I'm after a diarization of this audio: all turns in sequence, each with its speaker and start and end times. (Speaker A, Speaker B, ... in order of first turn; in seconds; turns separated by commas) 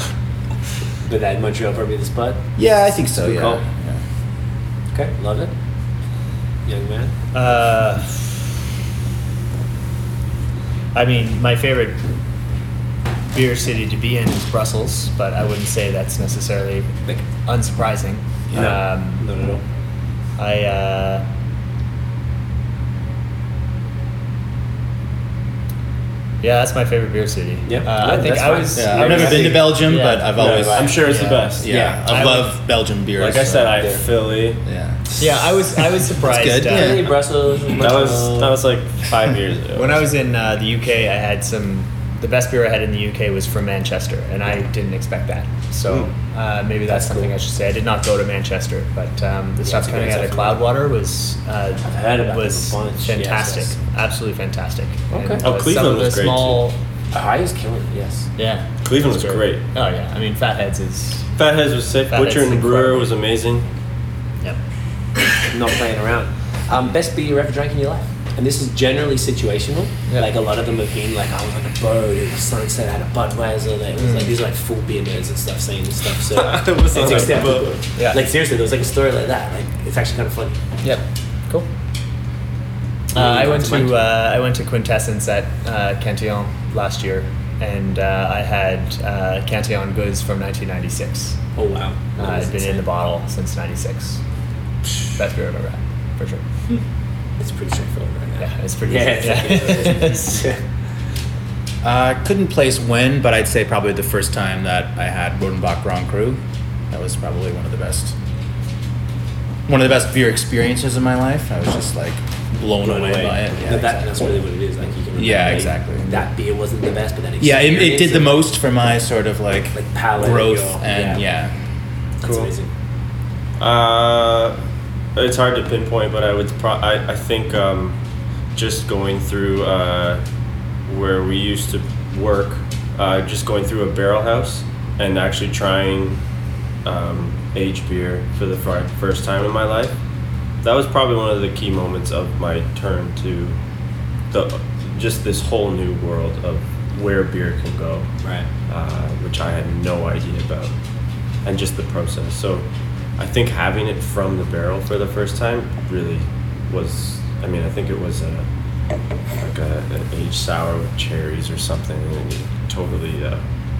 Speaker A: 1.0-3.6, Speaker B: 2.5-4.0, Speaker A: 4.9-5.5, Speaker A: 6.7-7.2, Speaker C: 7.3-8.4, Speaker C: 10.9-12.0, Speaker C: 13.3-19.2, Speaker B: 18.5-18.8, Speaker A: 18.5-19.6, Speaker C: 20.4-21.2, Speaker C: 26.4-32.5, Speaker A: 27.6-29.8, Speaker B: 28.7-34.0, Speaker D: 30.3-31.7, Speaker A: 31.7-32.2, Speaker D: 33.1-34.6, Speaker A: 33.8-34.0, Speaker B: 34.6-35.0, Speaker C: 35.2-36.9, Speaker B: 35.7-37.1, Speaker A: 36.7-38.6, Speaker D: 37.8-40.1, Speaker C: 39.7-56.8, Speaker A: 46.9-47.3, Speaker A: 49.6-50.6, Speaker A: 51.8-53.8, Speaker A: 55.1-55.4, Speaker D: 55.4-56.6, Speaker A: 57.1-58.3, Speaker C: 58.4-61.3, Speaker D: 58.8-59.6, Speaker D: 61.4-63.6, Speaker C: 62.1-63.1, Speaker C: 65.2-65.5, Speaker A: 65.5-80.6, Speaker C: 70.1-70.3, Speaker C: 74.0-74.3, Speaker D: 76.3-77.8, Speaker C: 78.0-78.2, Speaker C: 80.8-81.7, Speaker A: 83.1-84.0, Speaker C: 83.1-91.4, Speaker A: 91.5-92.8, Speaker C: 92.2-94.2, Speaker C: 95.1-96.5, Speaker A: 97.4-100.6, Speaker C: 98.4-100.4, Speaker B: 101.8-108.2, Speaker B: 109.7-114.3, Speaker A: 112.8-118.5, Speaker B: 115.1-116.3, Speaker B: 117.4-121.5, Speaker A: 119.7-121.2, Speaker C: 122.2-122.5, Speaker A: 122.2-122.7, Speaker D: 123.6-124.5, Speaker D: 125.1-128.0, Speaker D: 128.5-130.2, Speaker D: 130.8-136.2, Speaker D: 136.8-140.0, Speaker D: 140.6-143.6, Speaker D: 144.3-148.1, Speaker D: 148.7-150.7, Speaker D: 151.4-152.6, Speaker D: 153.2-158.5, Speaker D: 159.3-163.4